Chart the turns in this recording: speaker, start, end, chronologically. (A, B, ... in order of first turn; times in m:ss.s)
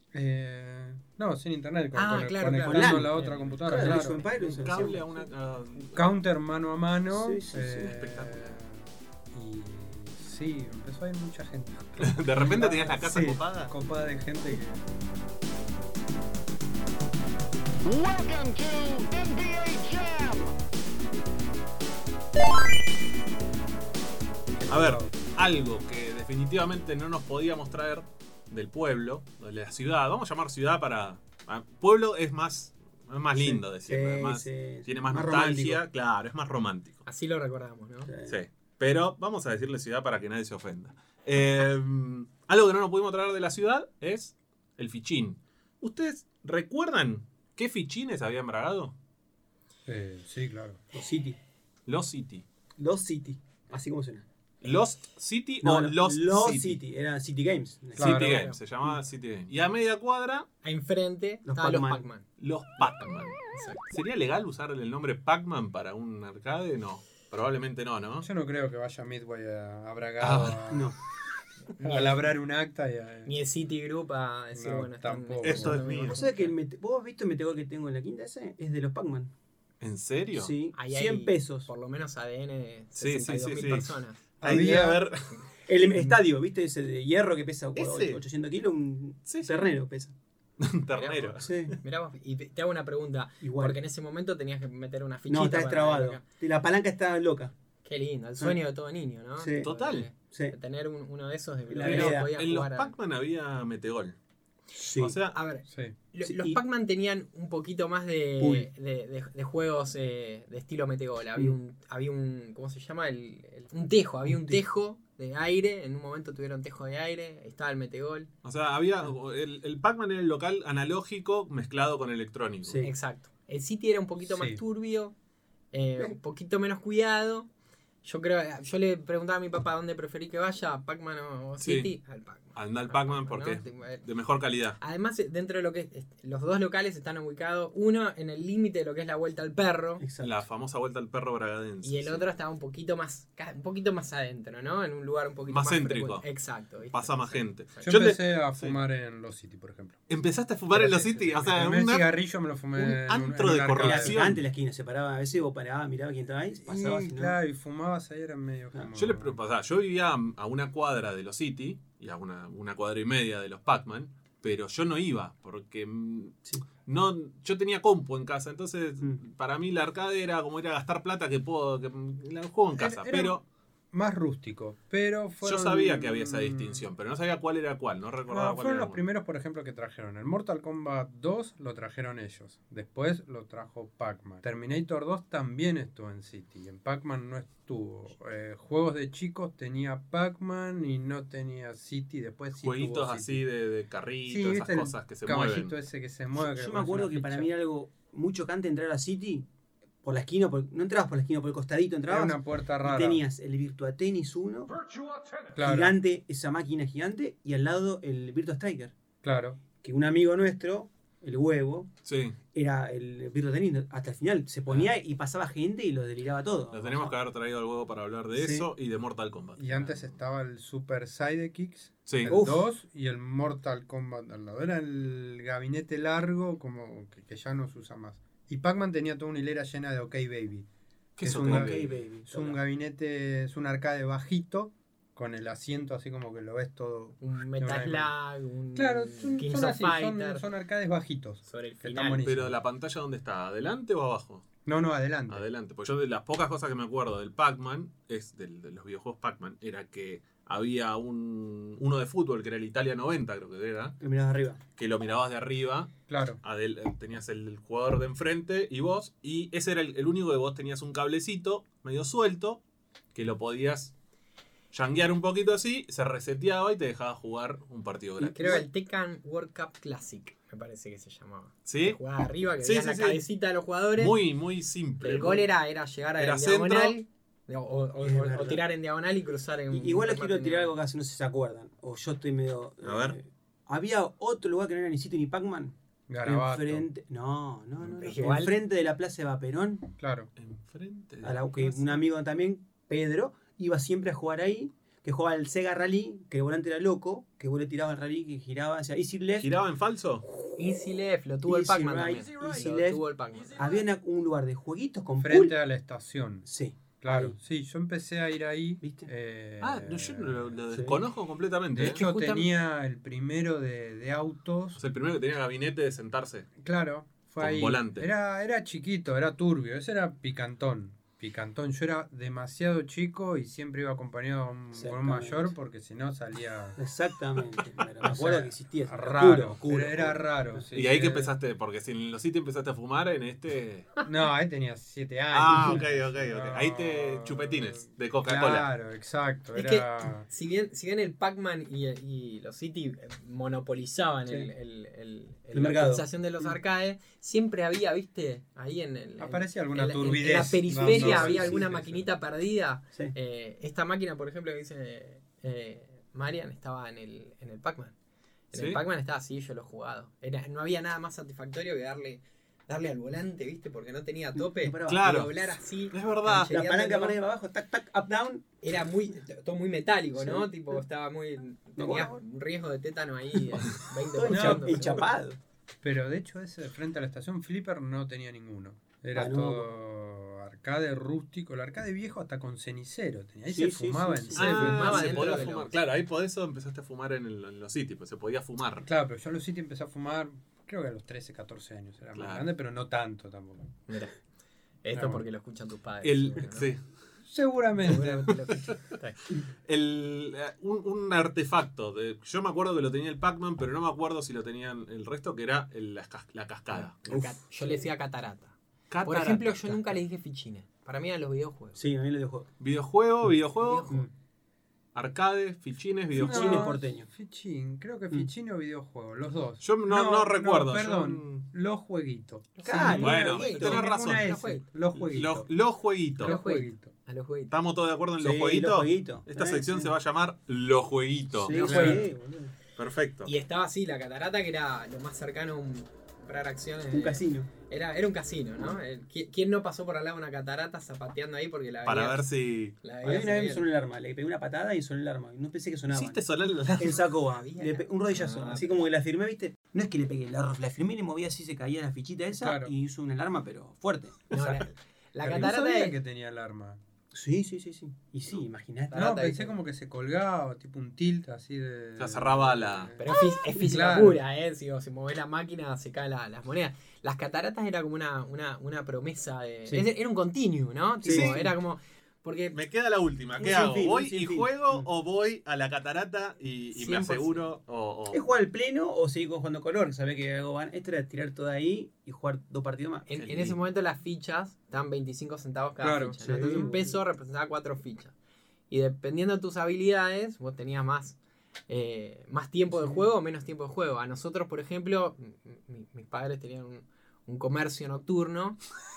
0:00.1-0:04.3 A
0:01.9-0:03.9 B
0:02.7-0:03.1 C
0:03.6-0:05.3 C
0:04.3-0:06.0 D
0:05.9-0:14.9 A
0:07.1-0:07.9 C
0:07.8-0:08.4 D
0:12.0-0:13.7 D
0:12.3-0:13.4 C
0:17.8-0:20.6 E
0:24.6-0:25.2 A
0:24.7-0:37.0 D
0:33.4-0:35.8 C
0:37.0-0:38.1 B
0:38.0-0:38.4 C
0:38.3-0:49.0 D
0:49.8-0:50.8 A
0:50.9-0:51.4 C
0:51.9-0:52.4 D
0:52.8-0:54.7 C
0:54.6-0:56.8 D
0:55.6-0:58.2 C
0:57.9-1:00.5 D
0:58.0-0:58.4 A
0:58.2-0:58.6 B
1:00.6-1:02.2 B
1:01.4-1:02.0 C
1:02.4-1:08.2 D
1:03.5-1:03.9 B
1:08.2-1:10.9 A
1:10.2-1:10.6 D
1:10.7-1:11.0 C
1:11.7-1:12.3 B
1:11.8-1:13.3 A
1:13.2-1:16.5 B
1:14.5-1:15.9 A
1:15.4-1:16.2 D
1:16.0-1:19.3 C
1:19.8-1:20.5 D
1:20.3-1:21.7 C
1:20.7-1:24.2 B
1:23.0-1:25.3 D
1:24.4-1:25.0 C
1:24.4-1:25.0 A
1:25.6-1:30.1 C
1:27.7-1:28.2 D
1:29.3-1:29.6 D
1:30.6-1:31.5 D
1:30.9-1:36.2 B
1:31.4-1:31.8 C
1:33.4-1:33.8 C
1:35.3-1:37.5 C
1:37.8-1:42.9 B
1:39.4-1:39.7 C
1:39.6-1:40.1 D
1:40.2-1:40.6 C
1:41.7-1:42.3 C
1:41.8-1:44.2 D
1:44.7-1:45.2 C
1:45.0-1:45.3 D
1:45.3-1:58.3 B
1:45.7-1:45.9 A
1:46.2-1:46.6 C
1:48.4-1:48.7 C
1:54.3-1:54.6 C
1:58.4-2:02.8 D
2:02.6-2:02.9 C
2:02.8-2:05.1 B
2:04.2-2:04.6 A
2:05.7-2:07.5 B
2:08.0-2:14.0 B
2:11.6-2:11.9 D
2:12.5-2:14.8 D
2:14.8-2:20.0 B
2:20.0-2:20.4 C
2:20.2-2:22.2 D
2:21.8-2:28.0 B
2:25.5-2:26.2 D
2:26.9-2:28.8 D
2:27.8-2:30.0 A
2:30.1-2:32.1 D
2:30.7-2:34.3 A
2:32.7-2:34.4 D
2:33.8-2:37.4 C
2:36.6-2:39.4 A
2:38.9-2:53.4 D
2:52.7-2:53.4 A
2:53.9-2:56.9 A
2:55.4-2:59.0 D
2:58.3-3:13.4 A
3:12.6-3:15.7 D
3:14.3-3:17.5 A
3:16.4-3:19.5 C
3:20.0-3:24.7 C
3:22.1-3:23.2 A
3:25.5-3:26.0 A
3:25.6-3:29.0 C
3:29.2-3:29.6 A
3:29.8-3:31.9 C
3:32.0-3:32.4 D
3:32.5-3:37.2 C
3:34.7-3:34.9 D
3:36.7-3:40.2 D
3:38.3-3:38.7 C
3:39.6-3:50.7 A
3:42.1-3:42.3 D
3:42.2-3:42.6 C
3:51.2-3:52.0 D
3:51.2-3:58.1 A
3:51.3-3:52.6 C
3:57.2-4:00.4 B
3:58.7-4:02.6 A
4:01.5-4:02.2 B
4:02.2-4:04.4 D
4:04.6-4:05.4 A
4:05.3-4:14.0 D
4:14.0-4:14.6 C
4:14.8-4:22.6 D
4:16.1-4:16.4 A
4:23.1-4:23.9 D
4:24.7-4:28.6 D
4:28.2-4:34.2 B
4:31.6-4:32.0 D
4:32.6-4:33.2 D
4:34.0-4:35.5 D
4:35.0-4:40.7 B
4:36.2-4:36.9 D
4:38.0-4:38.6 C
4:39.7-4:49.9 C
4:42.8-4:43.2 D
4:46.1-4:46.8 A
4:48.0-4:48.5 B
4:50.0-4:50.3 A
4:50.4-4:52.0 D
4:51.2-4:59.5 C
4:59.4-5:00.2 D
5:00.6-5:03.7 B
5:01.4-5:03.0 C
5:03.6-5:05.5 C
5:05.2-5:06.5 A
5:06.4-5:07.4 C
5:07.0-5:10.6 A
5:08.8-5:09.1 C
5:09.6-5:12.0 D
5:10.7-5:11.0 C
5:11.7-5:14.8 A
5:11.8-5:12.4 B
5:14.8-5:16.5 D
5:16.6-5:26.8 A
5:17.4-5:18.1 D
5:24.7-5:25.5 C
5:26.8-5:30.6 C
5:28.0-5:31.3 A
5:30.7-5:33.9 D
5:34.0-5:40.3 A
5:35.3-5:38.7 D
5:35.5-5:35.9 C
5:39.5-5:57.9 B
5:45.5-5:46.6 C
5:49.2-5:52.0 A
5:50.8-5:51.7 C
5:58.5-6:07.2 B
5:58.5-5:58.8 D
6:04.4-6:05.1 C
6:04.9-6:06.5 D
6:06.5-6:08.5 C
6:08.6-6:15.1 B
6:10.2-6:10.8 C
6:11.8-6:12.2 C
6:13.5-6:15.4 C
6:14.3-6:15.0 A
6:15.8-6:25.4 A
6:19.1-6:19.7 C
6:23.5-6:25.5 C
6:24.3-6:28.9 D
6:24.4-6:25.8 B
6:28.8-6:33.8 A
6:32.1-6:32.5 D
6:33.9-6:34.2 B
6:34.8-6:36.7 B
6:34.9-6:35.2 A
6:36.0-6:36.8 D
6:37.2-6:38.4 A
6:37.8-6:39.2 B
6:39.6-6:47.0 D
6:46.7-6:47.9 C
6:47.0-6:51.8 B
6:48.9-6:49.9 D
6:51.7-6:52.5 C
6:52.6-6:53.9 D
6:53.6-6:54.0 B
6:54.9-6:56.7 D
6:56.1-6:57.1 C
6:56.1-7:05.5 A
6:59.6-7:01.5 D
7:02.6-7:04.6 B
7:02.6-7:03.6 C
7:03.0-7:04.4 D
7:05.1-7:06.3 D
7:06.2-7:06.9 A
7:06.2-7:07.5 B
7:07.5-7:12.0 D
7:08.2-7:09.9 C
7:11.4-7:12.5 C
7:11.5-7:12.0 B
7:11.5-7:12.1 A
7:12.8-7:13.3 D
7:13.2-7:22.2 B
7:16.9-7:17.5 C
7:21.8-7:22.8 D
7:22.8-7:23.7 B
7:23.0-7:26.2 C
7:25.9-7:27.0 D
7:26.8-7:34.7 C
7:27.1-7:28.8 B
7:32.3-7:32.7 A
7:34.3-7:36.0 B
7:35.2-7:36.8 A
7:37.1-7:39.0 C
7:38.9-7:39.6 B
7:38.9-7:44.2 A
7:42.0-7:42.9 D
7:43.0-7:52.6 B
7:51.0-7:51.5 C
7:52.5-7:58.2 D
7:53.4-7:54.9 C
7:56.7-7:57.4 B
7:58.1-8:03.1 C
8:03.1-8:08.1 B
8:03.1-8:03.6 D
8:05.8-8:06.8 A
8:06.2-8:06.9 C
8:08.7-8:11.2 B
8:11.7-8:18.6 B